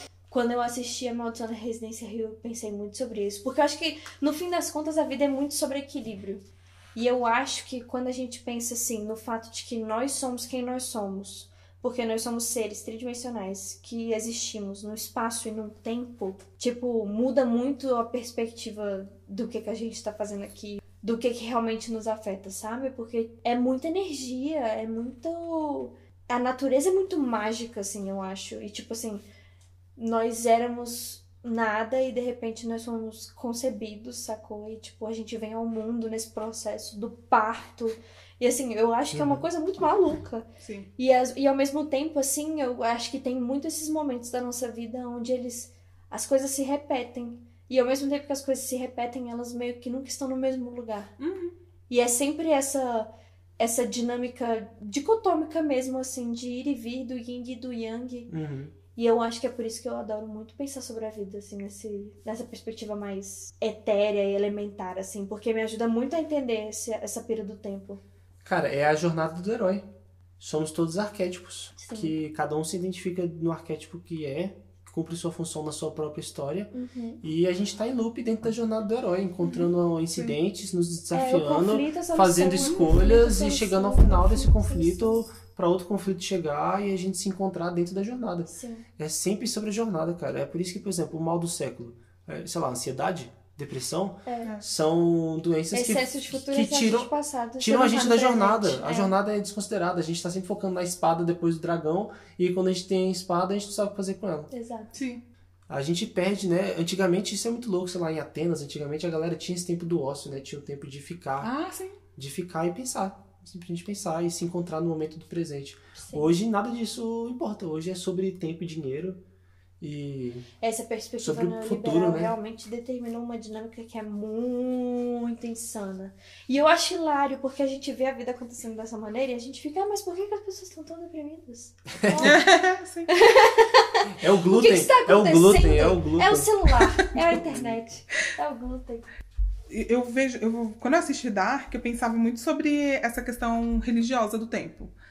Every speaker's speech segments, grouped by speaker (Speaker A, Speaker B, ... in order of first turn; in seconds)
Speaker A: 0.3-6.4, 6.9-29.2, 29.9-40.5, 41.0-51.1, 51.9-58.3, 58.9-68.0, 71.8-72.1, 76.7-77.2, 81.1-85.3, 88.5-88.8, 94.2-94.6, 95.7-99.1, 104.5-104.9, 116.0-116.3, 120.6-132.5, 133.1-139.1
Speaker B: 39.1-39.4, 58.3-58.7, 68.4-69.8, 70.4-104.5, 105.7-111.5, 112.2-119.2, 119.8-120.5, 121.2-122.3, 132.0-132.3, 134.2-136.5, 137.4-137.8
Speaker C: 40.6-40.9, 51.2-51.5, 79.4-80.3, 104.9-105.2, 111.4-112.0, 132.2-133.1, 139.7-144.9